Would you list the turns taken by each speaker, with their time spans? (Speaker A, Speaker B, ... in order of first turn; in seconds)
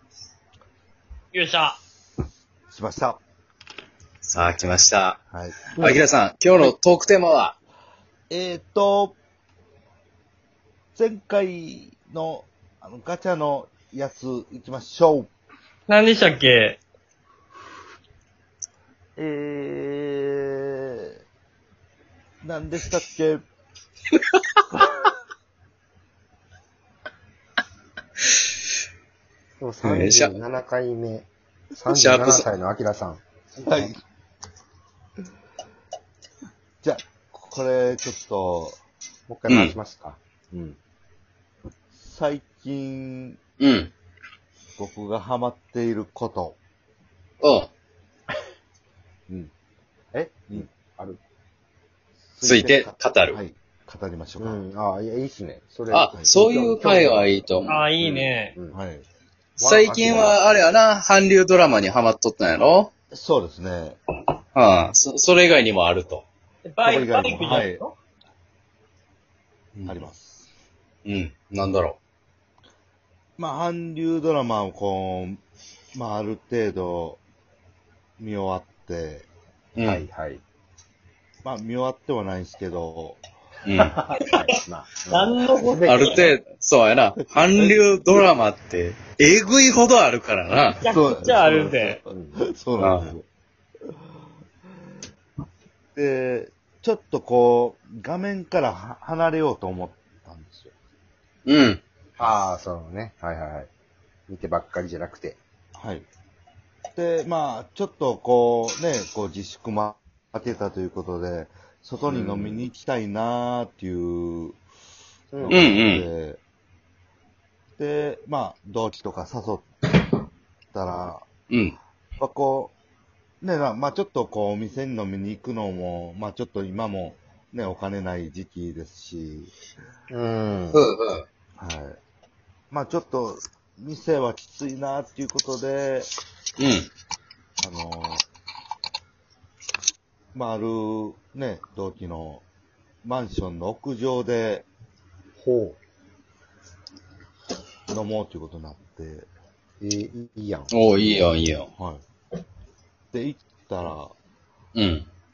Speaker A: 1.3-1.8, 15.9-16.8, 57.7-58.5, 66.7-67.9, 84.1-84.5, 85.1-86.2, 90.8-92.0
Speaker B: 2.7-3.2, 5.3-5.6, 8.3-9.2, 10.9-15.3, 19.2-21.2, 22.4-23.4, 33.6-34.0, 36.8-38.8, 41.9-43.4, 44.8-46.6, 52.3-54.6, 58.7-59.0, 63.1-64.0, 66.8-67.8, 69.8-70.5, 73.4-75.4, 75.9-77.2, 78.2-79.3, 81.4-83.2, 87.5-87.8, 90.8-93.2, 95.9-100.7, 105.8-106.0, 106.9-114.6, 115.4-116.4, 117.8-119.7, 120.7-121.3, 122.2-122.7, 123.4-129.5, 131.6-132.0, 132.7-136.1, 137.6-138.2, 140.3-142.4, 143.0-144.7, 147.9-149.3, 151.7-152.0, 153.1-154.1
Speaker C: 4.2-5.2, 5.8-7.6, 29.8-30.3, 31.9-32.4, 39.5-39.7, 43.6-43.9, 47.4-47.7, 52.4-53.4, 55.9-57.8, 59.6-62.9, 64.5-66.2, 71.0-72.0, 79.8-80.0, 83.6-84.0, 85.8-90.8, 92.8-93.1, 101.5-101.8, 115.5-116.1, 121.5-121.8, 130.7-131.2, 136.6-136.9, 150.7-151.7, 154.7-155.1
Speaker D: 5.8-6.0, 29.6-31.3, 31.8-33.2, 39.3-40.8, 50.1-51.2, 54.4-57.3, 58.0-58.8, 59.6-60.4, 79.9-80.4, 83.9-86.2, 92.1-92.4, 102.2-103.7, 104.3-105.4, 112.1-112.6, 115.3-115.7, 130.1-130.8, 145.4-145.8, 149.8-151.1